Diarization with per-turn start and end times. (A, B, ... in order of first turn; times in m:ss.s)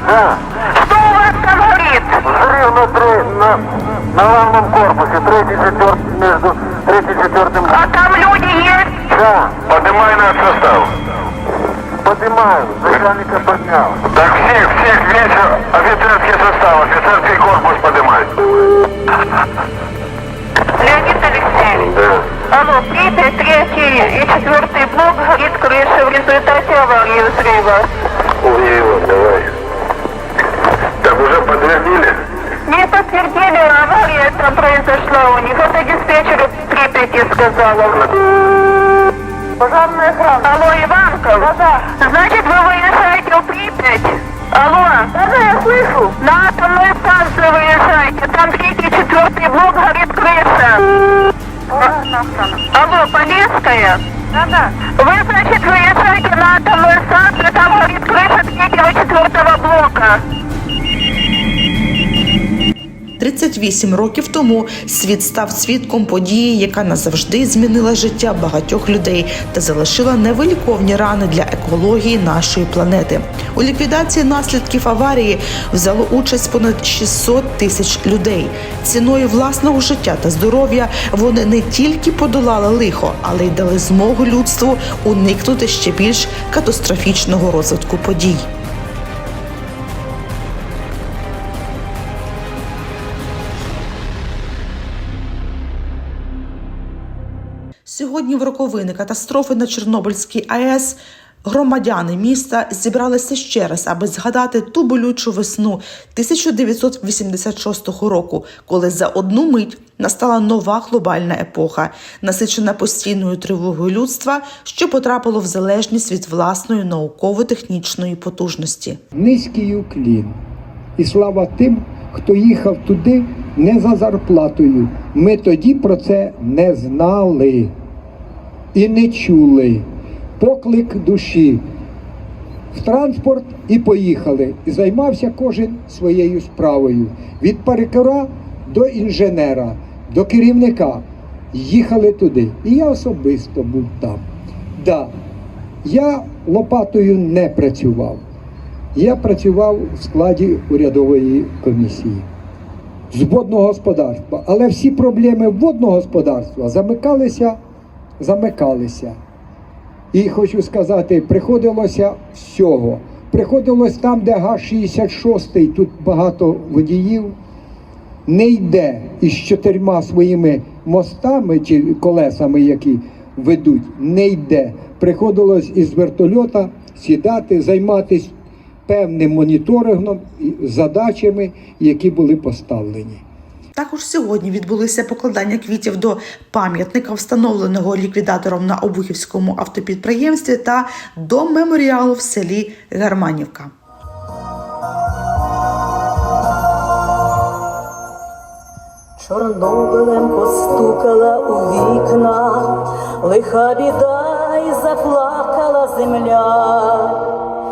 0:00.6-0:02.2 A
0:02.4-0:07.7 B
0:07.7-0:09.1 A
0:09.2-0:11.0 B
0:12.0-0:18.5 B
0:20.7-0:21.9 A
0:21.8-0:22.2 B
0:22.5-0:27.9 A
0:28.4-0:29.5 B
0:31.0-0:32.2 B
0:32.6-0:38.2 A
0:39.6-0:51.0 A
0:51.7-1:00.2 A
1:03.2-1:28.5 C
1:37.9-1:59.0 C
1:59.1-2:00.4 D
2:01.0-2:07.7 D
2:08.7-2:09.8 D
2:10.4-2:11.6 D
2:12.7-2:24.3 D
2:24.8-2:25.1 D
2:25.8-2:28.2 D
2:28.9-2:32.3 D
2:33.1-2:37.6 D
2:38.2-2:39.2 D
2:40.1-2:47.4 D
2:48.3-2:58.3 D
2:58.9-3:03.2 D
3:03.8-3:13.7 C
3:19.2-3:27.5 E